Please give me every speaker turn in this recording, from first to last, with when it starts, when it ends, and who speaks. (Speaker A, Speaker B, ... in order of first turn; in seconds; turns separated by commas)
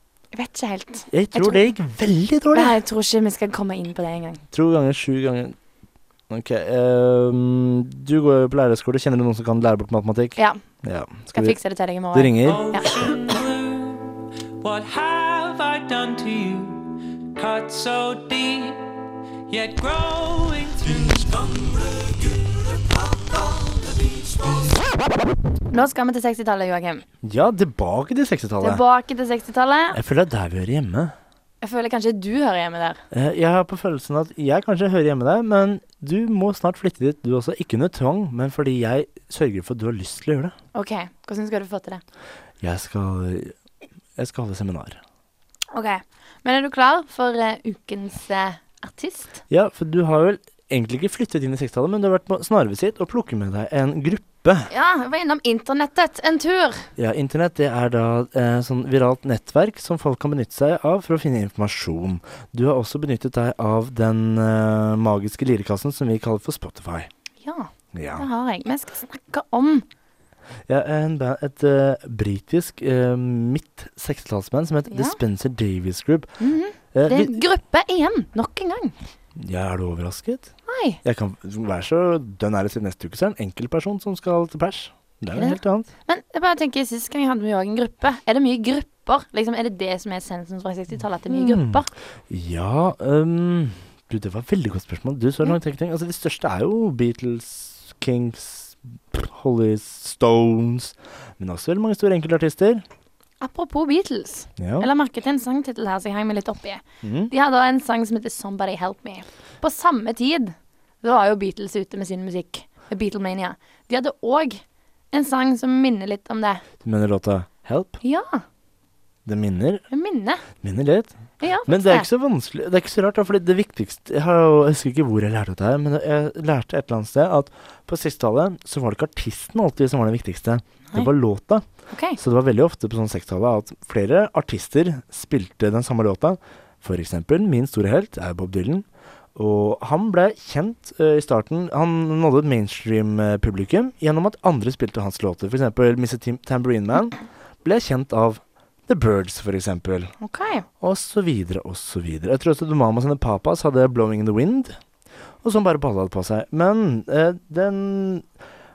Speaker A: 0.3-1.7, Speaker B: 1.1-2.8, Speaker A: 2.5-4.4, Speaker B: 4.5-5.5, Speaker B: 6.3-11.6, Speaker A: 11.3-13.0, Speaker B: 12.1-12.7, Speaker C: 12.4-18.9, Speaker C: 19.5-24.2, Speaker A: 25.7-27.0, Speaker B: 27.2-28.8, Speaker A: 28.6-30.0, Speaker B: 29.9-31.1, Speaker A: 31.6-33.0, Speaker B: 33.1-40.5, Speaker A: 40.7-42.0, Speaker B: 42.6-43.5, Speaker B: 44.2-45.0, Speaker A: 45.7-49.4, Speaker B: 49.5-54.7, Speaker A: 54.7-56.9, Speaker B: 57.0-67.1, Speaker A: 67.4-69.8, Speaker B: 67.9-68.2, Speaker B: 70.7-76.4, Speaker A: 74.9-75.2, Speaker A: 76.4-78.9, Speaker B: 76.9-77.3, Speaker B: 79.4-85.9, Speaker A: 80.7-81.0, Speaker A: 85.3-91.9, Speaker B: 91.3-102.8, Speaker A: 103.4-114.6, Speaker B: 104.6-104.9, Speaker B: 107.0-107.3, Speaker A: 115.1-116.6, Speaker B: 116.8-118.0, Speaker A: 118.0-118.4, Speaker B: 119.2-119.8, Speaker A: 119.9-120.4, Speaker B: 120.6-131.6, Speaker A: 121.4-122.1, Speaker A: 131.9-132.2, Speaker B: 132.2-138.8, Speaker B: 139.3-150.1, Speaker A: 150.2-150.6, Speaker B: 150.8-154.8, Speaker B: 155.4-158.3